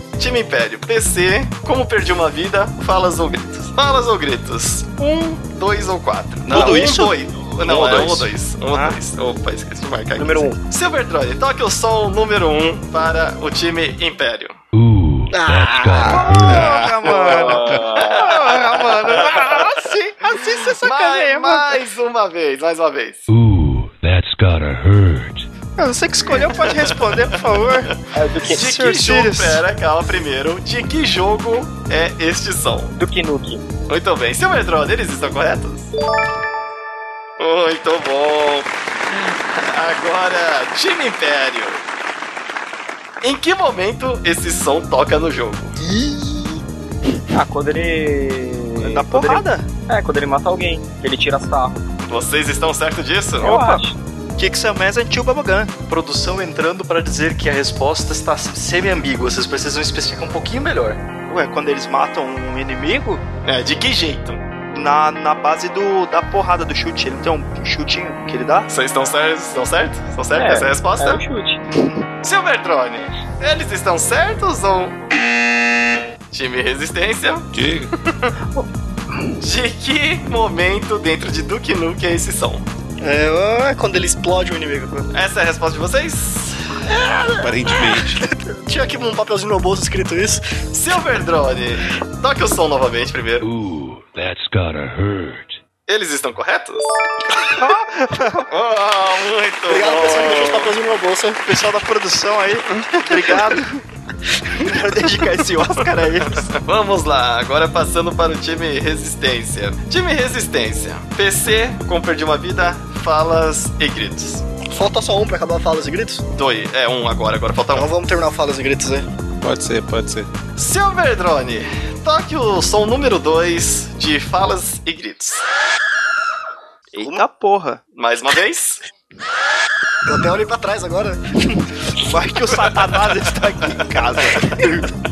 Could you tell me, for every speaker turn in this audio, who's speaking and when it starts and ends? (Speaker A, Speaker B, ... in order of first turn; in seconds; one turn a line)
Speaker A: 0.2-14.6
Speaker B: 6.5-7.1
Speaker C: 7.8-8.2
Speaker B: 8.7-9.0
Speaker C: 10.2-10.6
Speaker D: 14.7-16.7
Speaker B: 15.3-21.8
Speaker E: 15.4-16.2
Speaker F: 16.4-17.9
Speaker C: 17.1-18.6
Speaker A: 18.0-19.8
Speaker A: 20.8-23.3
Speaker D: 23.3-25.5
Speaker B: 25.8-27.9
Speaker A: 26.6-27.1
Speaker C: 28.1-28.6
Speaker A: 28.5-32.9
Speaker B: 28.5-29.6
Speaker C: 32.9-33.6
Speaker A: 33.9-35.9
Speaker A: 37.4-41.8
Speaker A: 43.2-45.8
Speaker E: 45.8-46.6
Speaker C: 47.3-51.8
Speaker B: 48.8-49.7
Speaker A: 52.0-53.6
Speaker C: 53.4-54.0
Speaker B: 53.4-53.8
Speaker B: 54.4-55.7
Speaker G: 55.9-61.0
Speaker B: 61.3-63.2
Speaker A: 63.4-64.4
Speaker B: 64.7-68.7
Speaker A: 68.7-71.2
Speaker C: 70.3-71.6
Speaker A: 72.2-75.0
Speaker A: 76.3-77.5
Speaker F: 77.5-77.9
Speaker A: 78.0-78.3
Speaker A: 79.4-82.7
Speaker E: 83.0-85.1
Speaker A: 85.1-86.8
Speaker E: 86.9-90.4
Speaker F: 87.4-88.2
Speaker A: 90.7-93.5
Speaker D: 93.4-95.6
Speaker A: 95.9-97.0
Speaker B: 97.5-98.5
Speaker A: 98.5-100.7
Speaker E: 99.7-101.4
Speaker B: 101.5-103.8
Speaker B: 104.5-106.5
Speaker A: 106.3-114.4
Speaker E: 114.7-116.2
Speaker A: 116.3-117.9
Speaker E: 117.7-119.0
Speaker F: 119.4-120.3
Speaker A: 120.6-125.4
Speaker B: 126.9-127.8
Speaker A: 127.9-128.8
Speaker E: 130.1-132.0
Speaker B: 132.0-134.8